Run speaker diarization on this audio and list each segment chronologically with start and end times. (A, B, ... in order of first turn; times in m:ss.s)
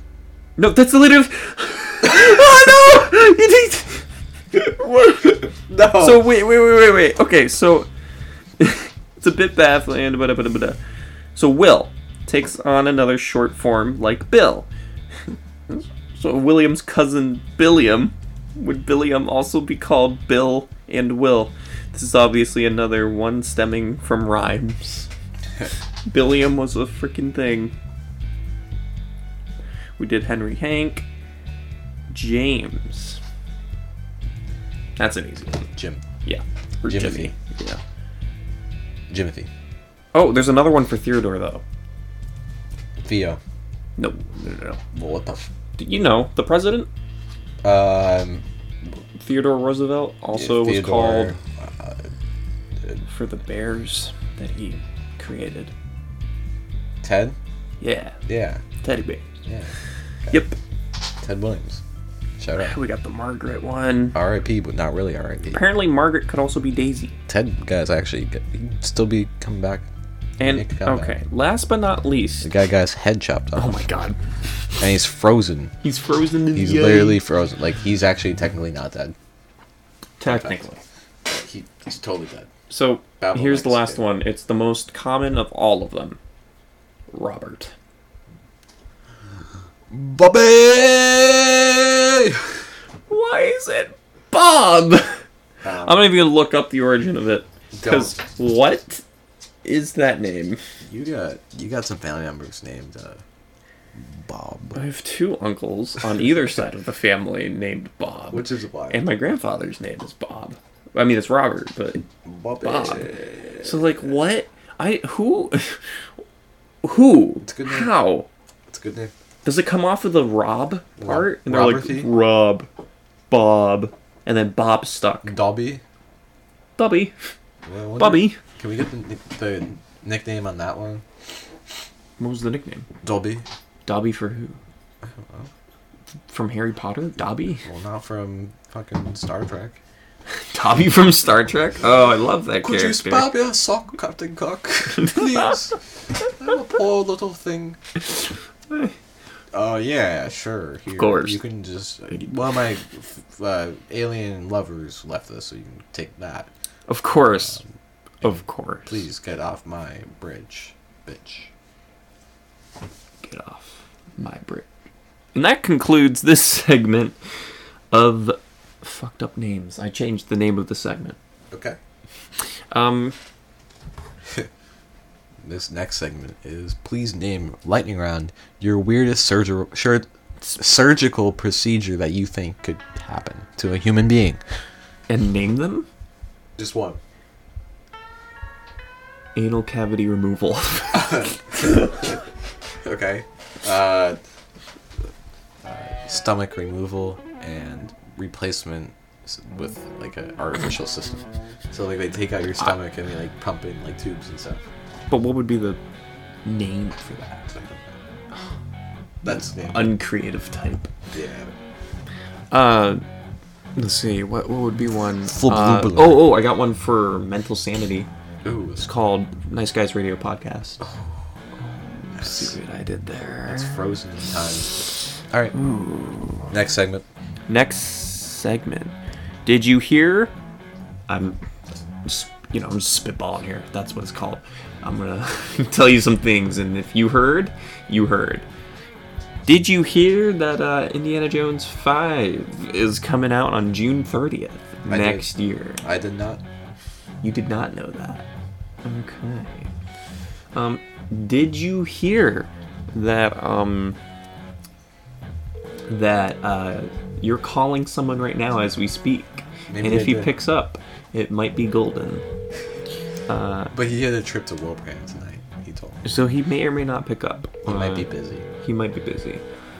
0:00.6-0:07.9 A
0:05.7-0:06.3 B
0:08.6-0:10.8 A
0:11.3-0:14.7 A
0:15.7-0:25.1 A
0:26.1-0:27.7 A
0:30.0-0:31.0 A
0:32.1-0:33.2 A
0:35.0-0:35.7 A
0:35.7-0:36.0 B
0:36.2-0:37.8 A
0:36.8-0:37.3 B
0:39.1-0:39.5 B
0:40.1-0:41.6 A
0:43.0-0:43.4 B
0:44.0-0:44.8 A
0:44.9-0:45.5 B
0:45.8-0:46.9 A
0:47.6-0:48.4 B
0:49.2-0:51.4 A
0:50.3-0:52.0 B
0:53.1-0:55.7 A
0:57.0-0:57.4 B
0:57.8-0:58.2 A
0:58.2-0:58.6 B
0:58.8-0:59.2 A
0:59.4-0:59.7 B
1:00.3-1:00.6 A
1:01.2-1:01.8 B
1:02.4-1:02.8 B
1:02.6-1:04.2 A
1:04.1-1:05.7 B
1:05.5-1:07.2 A
1:07.3-1:09.8 B
1:10.4-1:12.5 A
1:10.4-1:11.2 B
1:12.4-1:13.8 B
1:13.6-1:14.2 A
1:14.8-1:15.7 B
1:15.8-1:17.2 A
1:16.5-1:19.1 B
1:20.2-1:20.8 A
1:20.2-1:20.6 B
1:21.2-1:22.5 B
1:22.7-1:26.2 A
1:23.2-1:24.0 B
1:27.1-1:27.7 A
1:29.9-1:32.4 B
1:33.1-1:35.2 A
1:35.6-1:36.1 B
1:35.8-1:39.0 A
1:37.7-1:38.2 B
1:39.6-1:40.6 A
1:40.8-1:43.2 B
1:44.0-1:44.8 B
1:44.7-1:52.0 A
1:48.3-1:49.0 B
1:52.2-1:54.1 B
1:52.6-1:55.8 A
1:56.8-1:58.3 A
1:57.4-1:57.9 B
1:58.7-1:59.1 B
1:59.4-2:02.7 A
2:01.0-2:02.1 B
2:03.3-2:05.3 A
2:05.2-2:05.8 B
2:06.8-2:07.1 A
2:07.6-2:11.0 B
2:08.0-2:08.4 A
2:12.2-2:12.8 A
2:13.0-2:13.4 B
2:13.8-2:14.6 A
2:15.0-2:15.5 B
2:16.3-2:17.7 A
2:17.6-2:19.8 B
2:20.5-2:23.3 A
2:22.6-2:25.8 B
2:24.9-2:25.6 A
2:26.3-2:27.8 B
2:28.1-2:28.9 A
2:29.5-2:36.5 B
2:31.0-2:31.4 A
2:36.9-2:37.6 A
2:37.3-2:37.7 B
2:38.2-2:39.0 A
2:38.2-2:41.5 B
2:43.2-2:44.7 A
2:45.3-2:47.2 A
2:47.9-2:51.2 A
2:51.5-2:51.8 B
2:52.7-2:53.1 A
2:55.4-3:04.4 B
3:05.1-3:05.9 A
3:06.6-3:07.0 B
3:09.3-3:11.8 A
3:10.9-3:12.2 B
3:12.8-3:14.2 B
3:15.6-3:24.6 B
3:25.1-3:25.8 A
3:26.4-3:27.5 A
3:27.5-3:28.0 B
3:29.2-3:29.9 B
3:29.2-3:30.9 A
3:31.1-3:31.5 B
3:32.5-3:33.0 A
3:33.8-3:38.1 A
3:35.3-3:36.3 B
3:38.4-3:38.8 B
3:38.8-3:40.8 A
3:40.8-3:41.1 B
3:41.6-3:43.8 A
3:42.1-3:42.5 B
3:43.5-3:45.6 B
3:45.5-3:46.5 A
3:46.5-3:47.0 B
3:47.5-3:48.9 A
3:49.4-3:50.3 A
3:51.1-3:51.4 A
3:52.0-3:58.4 A
3:59.4-4:05.8 A
4:04.9-4:05.3 B
4:05.8-4:06.4 B
4:07.2-4:08.3 A
4:08.8-4:09.7 A
4:10.5-4:14.0 A
4:15.9-4:22.2 A
4:19.7-4:20.4 B
4:23.3-4:23.7 A
4:23.7-4:26.2 B
4:26.0-4:28.1 A
4:27.6-4:28.4 B
4:28.6-4:29.4 A